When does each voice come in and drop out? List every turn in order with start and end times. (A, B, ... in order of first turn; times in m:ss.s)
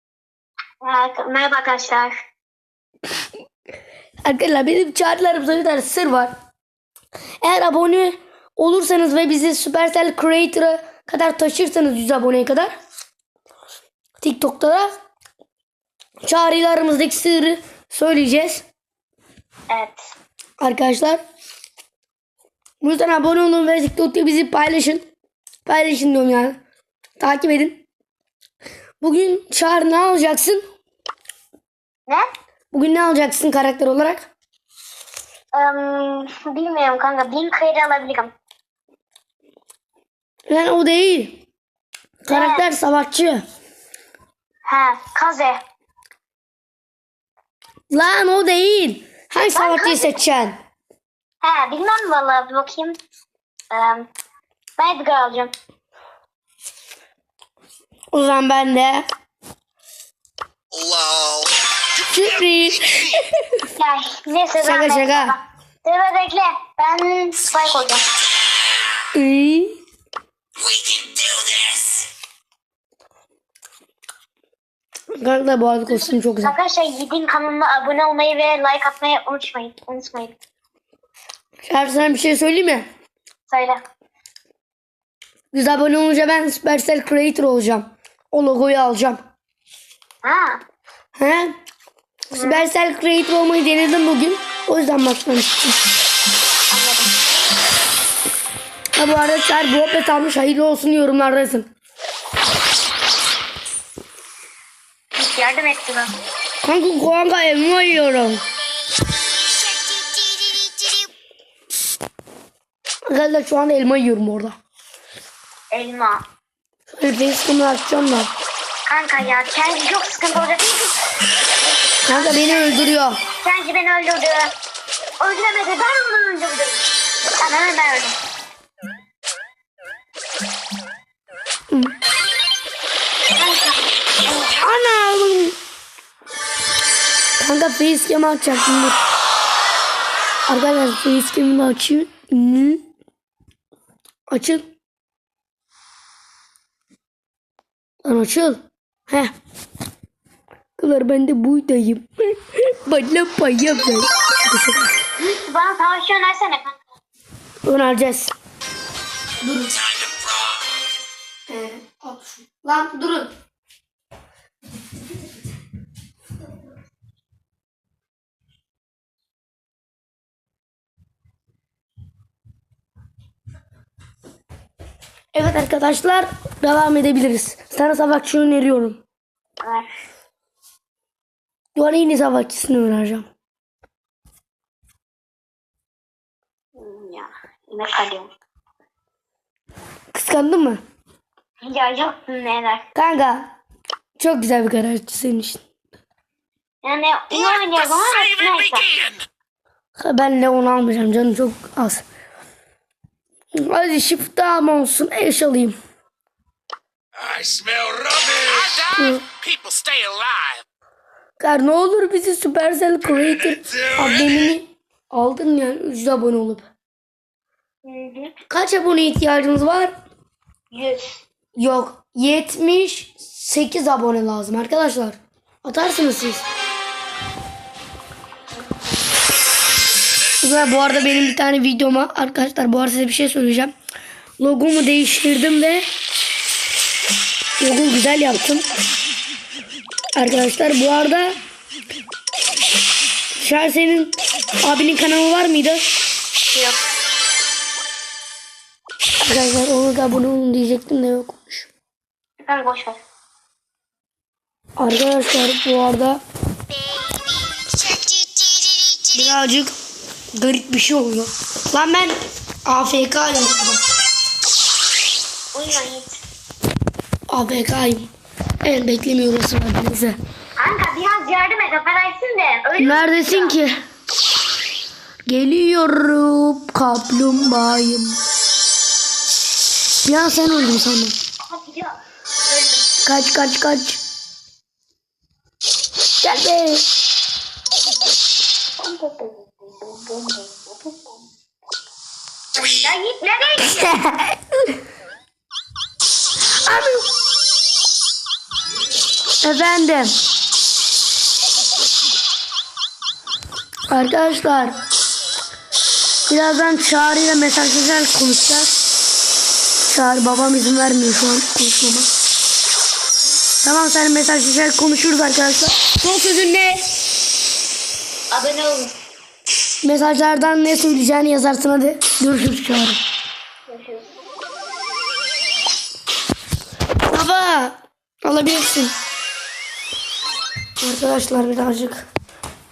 0:00.8-0:02.1 A
0:04.2-0:06.3 B
0:07.4-0:12.7 B
0:14.2-0:14.9 B
0:16.2-0:18.6 B
0:19.7-0:20.0 A
0:20.6-0:21.2 B
0:22.8-0:25.0 B
0:25.6-0:26.6 B
0:27.2-0:27.8 B
0:29.0-0:30.6 B
0:32.7-0:34.3 B
0:35.5-0:38.3 A
0:40.5-0:41.4 B
0:42.2-0:43.4 B
0:42.3-0:42.6 A
0:44.7-0:45.6 A
0:47.9-0:50.6 B
0:49.5-0:50.1 A
0:51.4-0:53.0 A
0:53.7-0:54.1 A
0:54.8-0:55.5 A
0:58.1-0:59.0 B
1:00.7-1:01.5 C
1:02.0-1:03.6 B
1:03.8-1:08.0 A
1:04.6-1:05.4 B
1:09.1-1:09.7 B
1:10.7-1:11.8 C
1:15.1-1:16.5 B
1:15.9-1:20.3 A
1:21.7-1:22.9 B
1:23.5-1:23.8 A
1:25.5-1:29.2 B
1:30.2-1:30.6 A
1:31.2-1:31.5 B
1:32.3-1:35.8 B
1:32.3-1:32.6 A
1:36.7-1:37.2 A
1:38.9-1:41.7 B
1:45.1-1:46.2 A
1:46.6-1:48.4 B
1:49.4-1:51.1 A
1:53.1-1:54.6 B
1:55.7-1:56.2 A
1:56.9-1:58.3 B
1:58.9-2:01.0 A
2:01.6-2:02.9 A
2:02.0-2:03.2 B
2:03.4-2:04.5 A
2:05.2-2:06.8 A
2:07.4-2:08.2 A
2:13.3-2:13.9 A
2:14.3-2:15.6 B
2:17.4-2:19.0 B
2:20.5-2:22.8 B
2:24.3-2:24.7 B
2:28.0-2:29.3 B
2:30.8-2:35.0 B
2:35.2-2:36.8 A
2:37.6-2:38.3 B
2:39.4-2:39.8 B
2:41.5-2:43.3 B
2:55.3-2:59.0 B
2:59.6-2:59.9 A
3:01.8-3:03.3 B
3:06.8-3:08.3 A
3:10.1-3:10.8 B
3:11.6-3:12.8 A
3:13.0-3:13.5 B
3:14.2-3:15.6 B
3:16.8-3:19.1 A
3:20.0-3:22.0 B
3:23.5-3:25.8 B
3:27.2-3:28.7 C
3:28.9-3:29.2 B
3:29.4-3:30.5 C
3:31.4-3:36.7 B
3:37.8-3:38.3 A
3:38.5-3:39.9 B
3:40.7-3:41.2 A
3:41.6-3:46.5 B
3:50.4-3:53.7 B
3:54.4-3:55.9 B
3:57.6-3:58.7 B
4:00.2-4:01.4 B
4:03.3-4:05.9 B
4:06.5-4:06.8 A
4:09.2-4:11.7 B
4:12.4-4:13.0 A
4:14.8-4:16.2 B
4:16.8-4:19.1 A
4:19.1-4:19.7 B
4:20.3-4:23.8 B
4:25.5-4:26.2 A
4:27.3-4:28.1 B
4:28.6-4:30.2 B
4:30.6-4:33.6 A
4:32.8-4:33.8 B
4:35.3-4:38.2 B
4:40.0-4:41.2 B
4:41.5-4:42.9 A
4:43.0-4:44.0 B
4:46.2-4:46.8 B
4:48.8-4:51.0 A
4:52.5-4:53.9 A
4:53.6-4:54.6 B
4:56.6-4:57.0 B
4:59.4-5:00.1 B
5:03.9-5:04.8 B
5:06.3-5:08.8 B
5:09.9-5:12.1 B
5:13.6-5:16.9 B
5:18.3-5:18.9 A
5:19.8-5:23.0 B
5:23.7-5:24.1 A
5:27.1-5:29.0 B
5:30.8-5:32.1 B